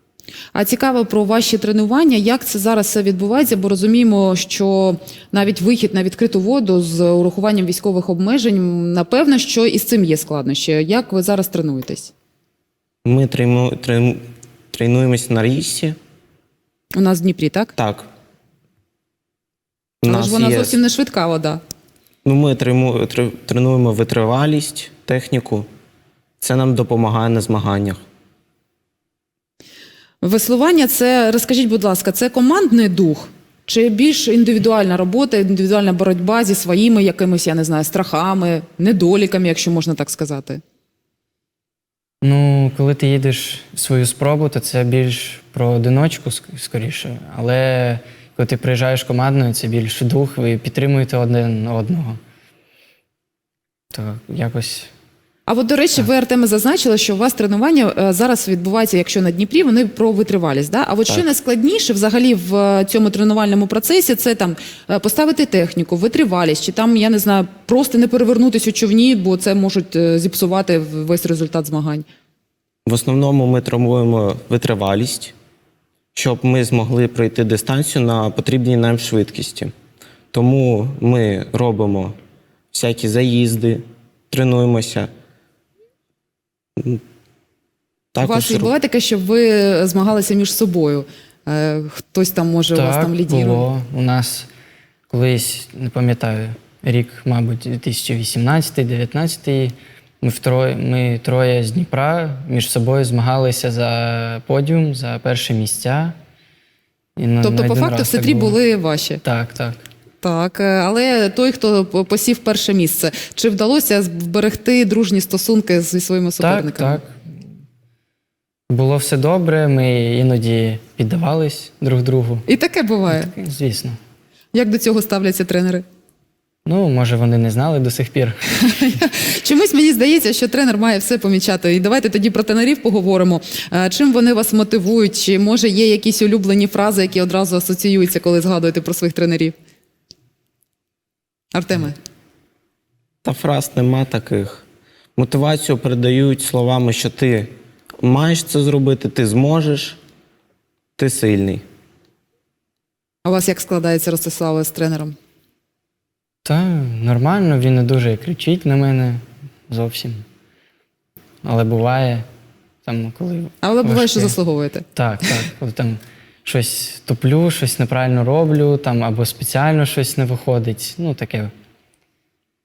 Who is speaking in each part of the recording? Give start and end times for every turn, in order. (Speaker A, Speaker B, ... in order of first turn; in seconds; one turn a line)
Speaker A: 0.5-12.1
Speaker B: 13.1-14.2
Speaker B: 14.7-16.0
Speaker A: 16.9-17.7
Speaker B: 17.8-18.1
Speaker B: 20.0-20.8
Speaker A: 20.1-21.6
Speaker B: 22.2-25.7
Speaker B: 26.4-28.0
Speaker A: 30.2-40.6
Speaker C: 42.2-52.2
Speaker C: 53.9-54.9
Speaker A: 55.5-72.1
Speaker B: 72.9-75.3
Speaker B: 76.2-79.7
Speaker B: 80.3-82.2
Speaker B: 82.7-85.1
Speaker B: 88.1-88.7
Speaker A: 88.2-93.7
Speaker C: 92.8-94.5
Speaker C: 95.1-106.2
Speaker C: 107.2-108.6
Speaker A: 107.4-109.2
Speaker C: 109.2-109.8
Speaker A: 110.2-117.0
Speaker C: 116.4-117.1
Speaker C: 118.7-122.5
Speaker A: 122.5-123.3
Speaker C: 123.1-124.0
Speaker A: 124.5-125.8
Speaker C: 126.7-129.0
Speaker A: 128.6-139.5
Speaker A: 141.5-142.0
Speaker B: 143.2-144.7
Speaker B: 145.2-150.0
Speaker B: 151.0-151.6
Speaker A: 153.2-155.2
Speaker C: 156.4-160.2
Speaker C: 161.4-162.2
Speaker C: 162.8-164.4
Speaker A: 163.6-164.8
Speaker C: 165.0-171.5